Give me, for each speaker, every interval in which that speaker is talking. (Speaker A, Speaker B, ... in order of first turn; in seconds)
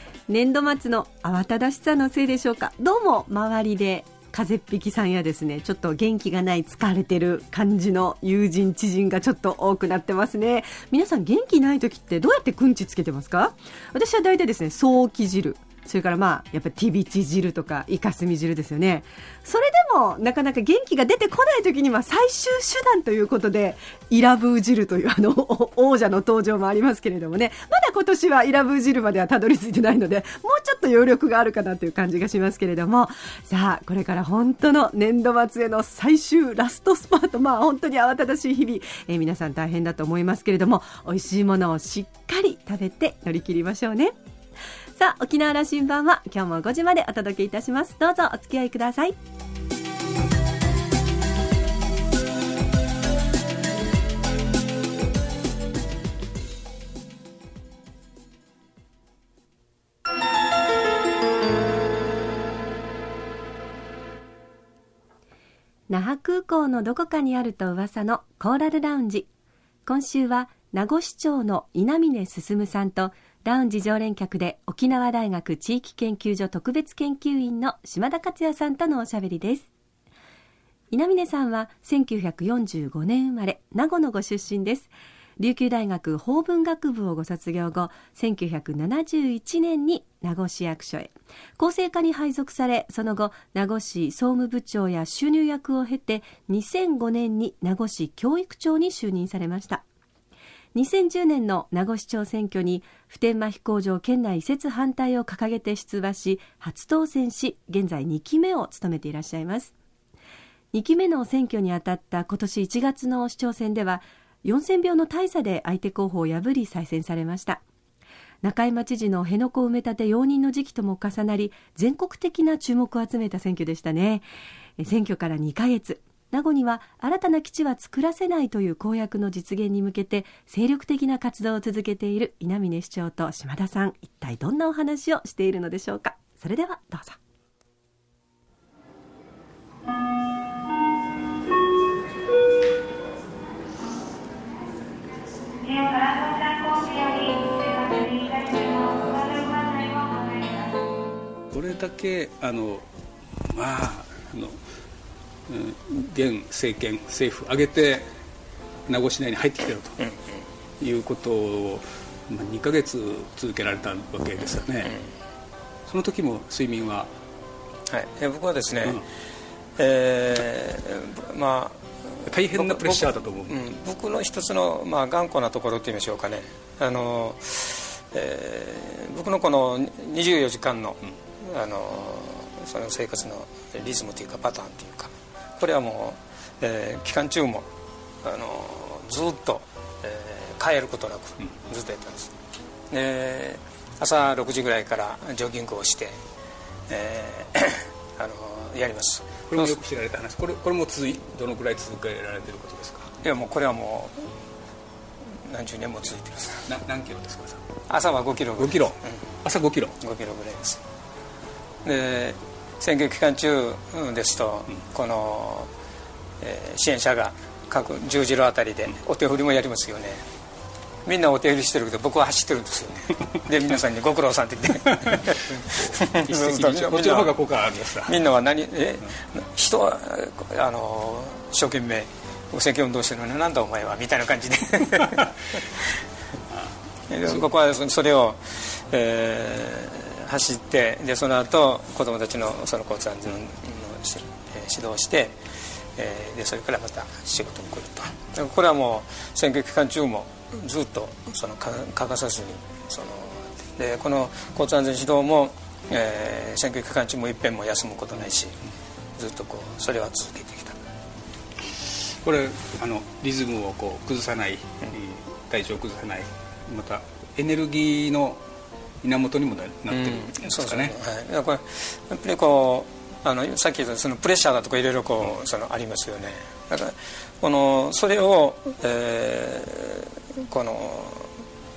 Speaker A: 0.3-44.1, 45.0-49.1, 65.9-69.3, 69.8-79.7, 80.9-99.8, 100.7-109.7, 110.7-117.6, 118.4-124.2, 124.8-137.2
Speaker B: 148.9-149.8, 151.5-152.8, 153.4-154.6, 155.5-158.1, 158.9-160.0, 160.8-165.0, 165.9-167.1, 172.2-173.6, 199.5-203.1, 206.7-207.6, 208.6-210.0, 225.1-228.2, 261.9-268.4, 269.0-270.9
Speaker C: 167.9-169.0, 169.8-187.7, 188.2-192.3, 192.9-196.2, 196.9-199.7, 203.2-204.3, 205.3-206.7, 207.9-209.2, 210.0-210.8, 211.8-215.7, 216.4-220.2, 221.0-227.3, 228.0-236.0, 237.1-245.4, 245.9-258.6, 259.2-260.8, 269.9-281.3